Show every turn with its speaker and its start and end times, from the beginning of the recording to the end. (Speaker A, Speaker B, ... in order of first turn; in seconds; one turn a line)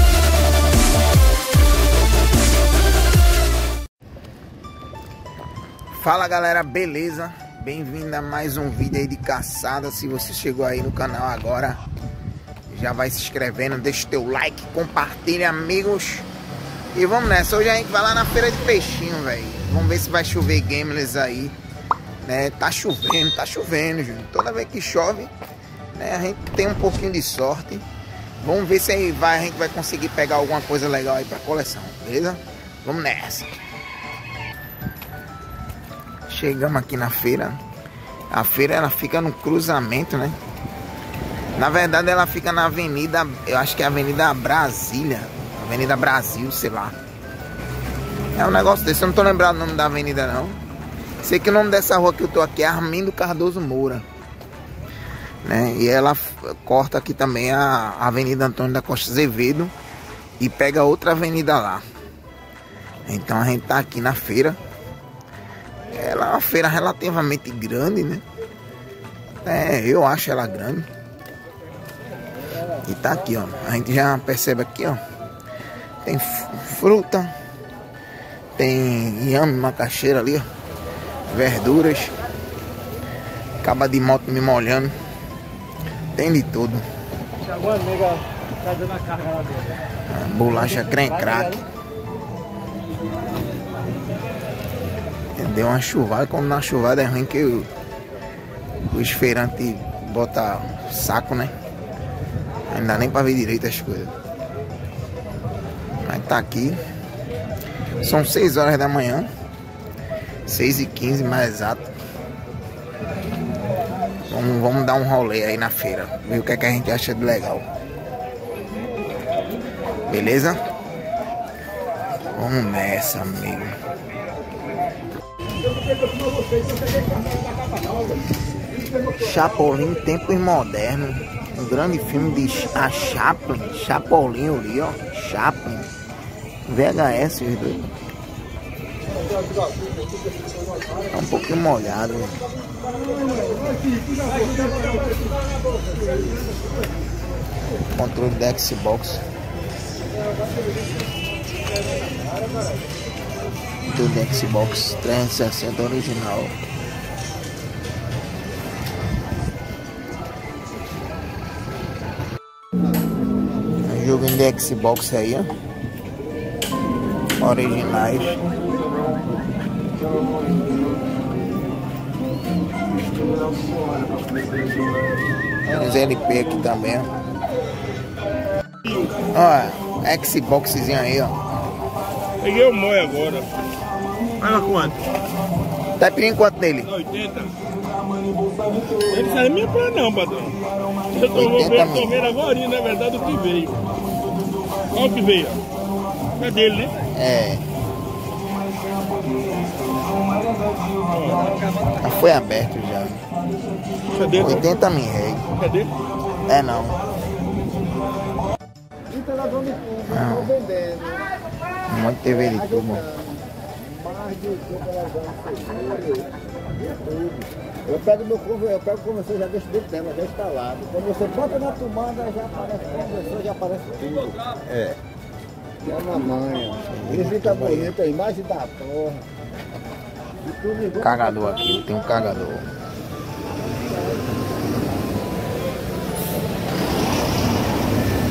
Speaker A: 5.9-11.8
Speaker A: 12.7-16.2
Speaker A: 16.9-21.6
Speaker A: 22.2-25.3
Speaker A: 25.9-27.8
Speaker A: 28.4-33.6
Speaker A: 36.3-37.6
Speaker A: 38.3-40.4
Speaker A: 41.5-47.0
Speaker A: 48.4-50.6
Speaker A: 51.2-54.0
Speaker A: 55.4-59.7
Speaker A: 60.4-61.8
Speaker A: 63.0-64.6
Speaker A: 65.9-68.2
Speaker A: 69.4-70.9
Speaker A: 72.8-75.0
Speaker A: 76.0-77.3
Speaker A: 78.6-80.5
Speaker A: 81.3-82.1
Speaker A: 83.6-84.9
Speaker A: 86.1-86.8
Speaker B: 87.5-89.5
Speaker A: 90.1-91.6
Speaker B: 90.7-91.6
Speaker A: 95.3-97.7
Speaker A: 98.9-101.5
Speaker A: 102.7-104.1
Speaker A: 106.0-106.8
Speaker A: 108.0-109.3
Speaker A: 110.5-111.9
Speaker A: 114.3-117.7
Speaker A: 120.1-120.6
Speaker A: 122.3-123.7
Speaker A: 129.2-135.9
Speaker A: 136.7-137.9
Speaker A: 141.1-142.4
Speaker B: 144.3-144.9
Speaker A: 147.9-149.2
Speaker A: 153.9-156.5
Speaker A: 163.8-165.5
Speaker A: 167.4-168.4
Speaker C: 173.5-175.0
Speaker A: 175.7-177.1
Speaker A: 179.3-181.4
Speaker C: 182.4-183.5
Speaker C: 184.4-185.0
Speaker A: 186.0-186.9
Speaker C: 186.9-187.6
Speaker C: 189.0-193.8
Speaker A: 191.3-192.1
Speaker C: 194.9-195.6
Speaker C: 196.4-197.1
Speaker A: 197.1-197.6
Speaker C: 201.1-202.0
Speaker A: 202.0-203.2
Speaker C: 204.0-204.8
Speaker A: 204.3-205.4
Speaker C: 205.5-205.9
Speaker A: 206.5-207.0
Speaker B: 209.1-210.0
Speaker A: 210.1-210.6
Speaker B: 210.7-211.0
Speaker A: 211.9-213.1
Speaker B: 214.2-216.0
Speaker B: 217.9-224.1
Speaker B: 225.9-226.9
Speaker A: 227.0-228.0
Speaker B: 228.1-229.2
Speaker A: 231.0-232.7